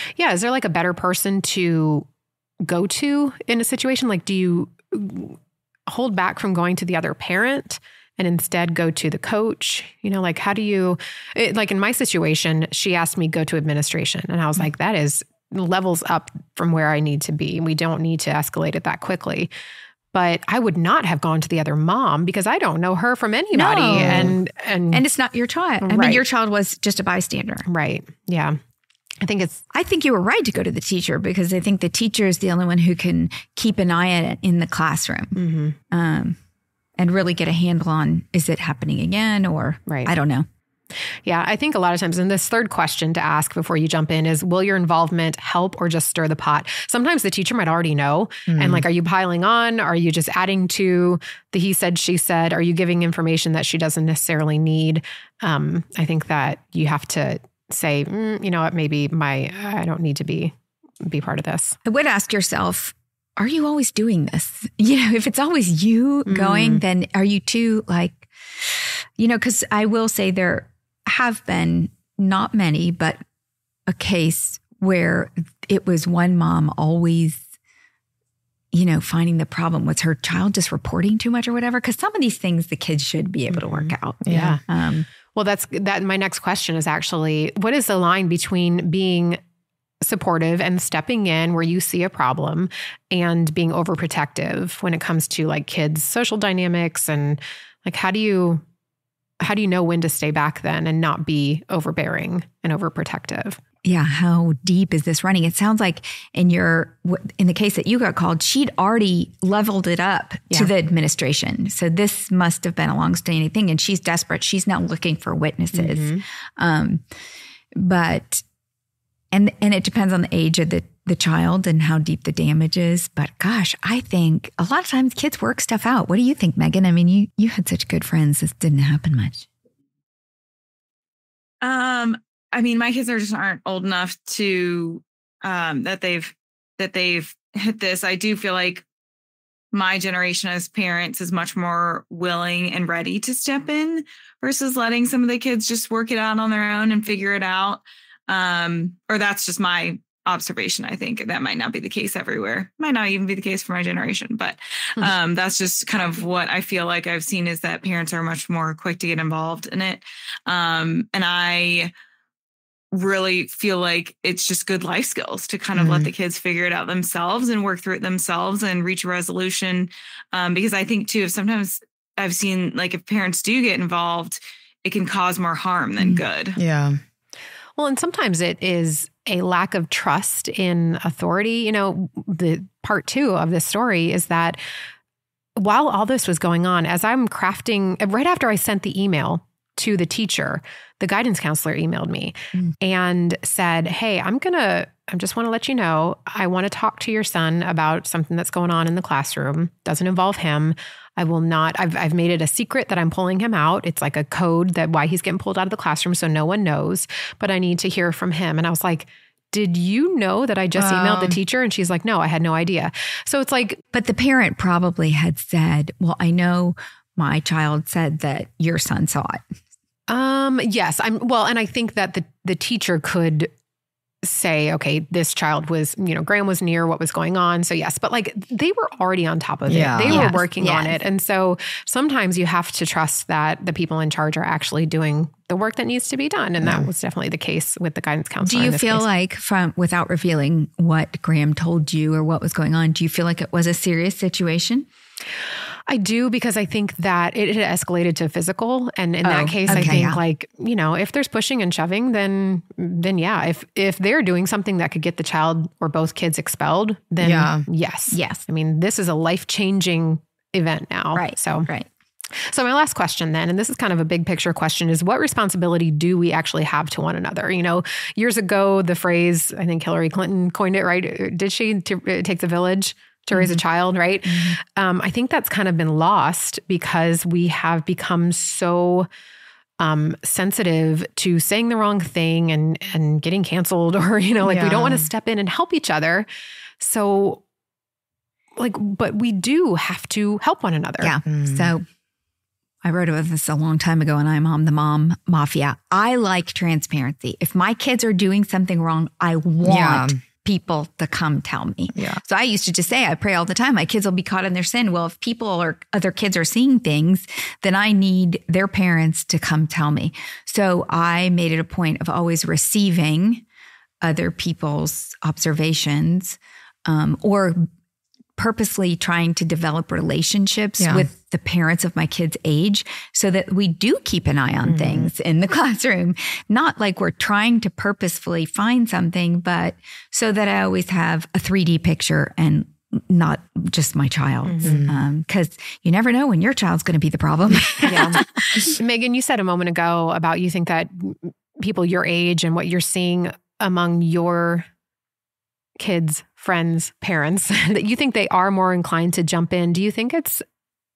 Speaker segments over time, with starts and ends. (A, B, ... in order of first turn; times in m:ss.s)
0:00.2-0:02.0 A
0:02.6-0:05.4 A
0:05.9-0:19.5 A
0:20.1-0:25.0 A
0:23.5-0:24.4 B
0:24.0-0:24.3 C
0:24.9-0:27.7 B
0:25.8-0:26.2 A
0:27.7-0:28.6 A
0:29.2-0:29.6 A
0:29.7-0:35.4 B
0:35.3-0:35.7 A
0:35.9-0:36.4 B
0:37.0-0:40.4 B
0:39.9-0:40.1 A
0:41.2-1:01.8 A
0:48.5-0:48.8 C
1:01.8-1:13.2 B
1:06.2-1:06.8 A
1:13.9-1:17.4 B
1:18.7-1:25.0 B
1:23.5-1:24.6 A
1:24.2-1:24.6 C
1:25.3-1:29.4 A
1:30.0-1:38.6 A
1:39.4-1:43.6 A
1:43.8-1:57.0 B
1:55.7-1:56.2 A
1:57.8-1:58.4 B
1:59.3-2:09.5 B
2:11.6-2:18.8 D
2:19.7-2:41.9 D
2:42.9-2:56.6 D
2:45.7-2:46.1 C
2:56.6-2:57.0 C
2:57.8-3:04.6 A
3:05.6-3:33.8 A
3:30.7-3:31.4 C
3:33.9-3:39.4 B
3:40.1-3:43.5 A
3:44.2-3:59.0 A
3:49.7-3:50.3 C
3:50.1-3:51.0 B
3:56.6-3:56.9 C
3:58.4-4:04.9 B
4:05.9-4:21.7 A
4:09.2-4:10.2 B
4:17.2-4:17.6 C
4:18.1-4:18.4 B
4:21.1-4:21.9 B
4:22.5-4:39.1 A
4:33.3-4:33.6 B
4:34.2-4:34.6 B
4:39.8-4:46.3 A
4:44.4-4:45.1 C
4:46.8-4:47.4 A
4:48.6-4:51.1 A
4:51.0-4:51.8 B
4:51.3-4:51.7 C
4:52.8-5:13.4 B
4:59.6-5:00.2 C
5:01.9-5:02.2 C
5:14.0-5:17.6 B
5:18.4-5:38.7 B
5:20.8-5:21.1 C
5:24.6-5:25.1 A
5:34.4-5:34.8 A
5:34.6-5:35.0 C
5:37.8-5:44.6 A
5:45.8-5:50.4 A